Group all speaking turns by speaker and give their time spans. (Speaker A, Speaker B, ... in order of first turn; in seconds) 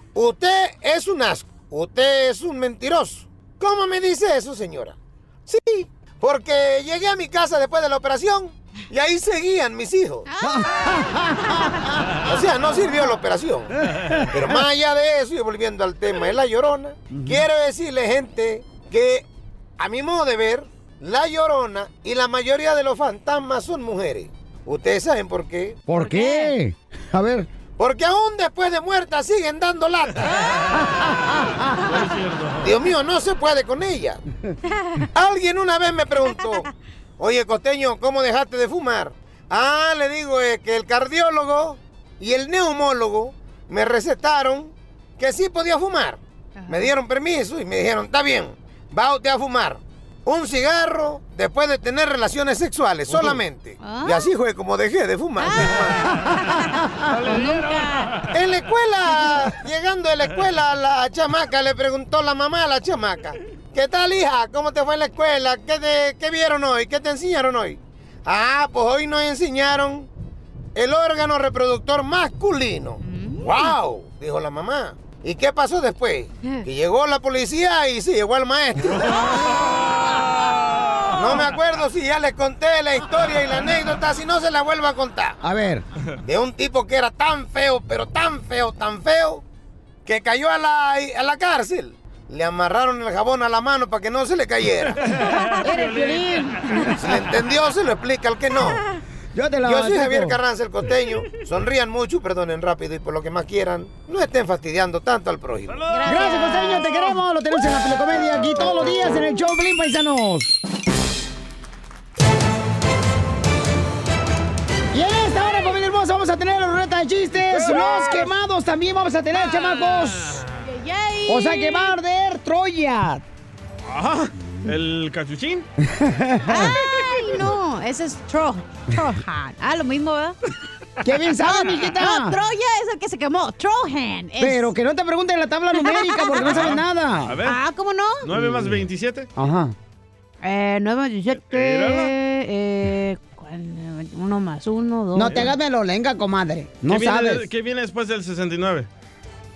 Speaker A: 0.1-5.0, 5.5-10.3, 12.2-13.7, 14.3-19.2, 19.8-25.8, 27.8-30.3, 32.6-34.2, 35.1-36.6, 37.2-56.0, 58.3-70.1, 70.7-79.2, 81.1-85.4, 86.2-89.4, 90.0-95.0, 97.0-98.8, 99.6-105.8
Speaker B: 10.3-11.8, 25.9-26.5, 46.6-46.9, 53.8-54.3, 55.4-58.2, 73.0-73.7, 105.9-107.2, 119.5-119.9, 120.6-122.0, 126.5-130.4, 131.4-134.7, 135.8-136.7, 137.4-138.3, 140.4-145.5
Speaker C: 10.4-11.3, 17.1-17.4, 25.9-27.5, 85.4-85.8, 95.6-97.1, 99.3-100.4, 106.0-110.6, 114.9-120.4, 121.3-123.2, 125.9-126.7, 131.0-132.4, 134.4-137.4, 138.4-138.8, 139.3-139.7, 145.1-147.5
Speaker D: 30.6-32.8, 53.1-53.4, 57.1-58.3, 94.9-96.5, 105.7-106.2, 117.5-118.0, 120.1-120.6, 123.9-125.7, 136.4-137.6, 138.2-139.3, 141.4-142.1, 146.9-148.9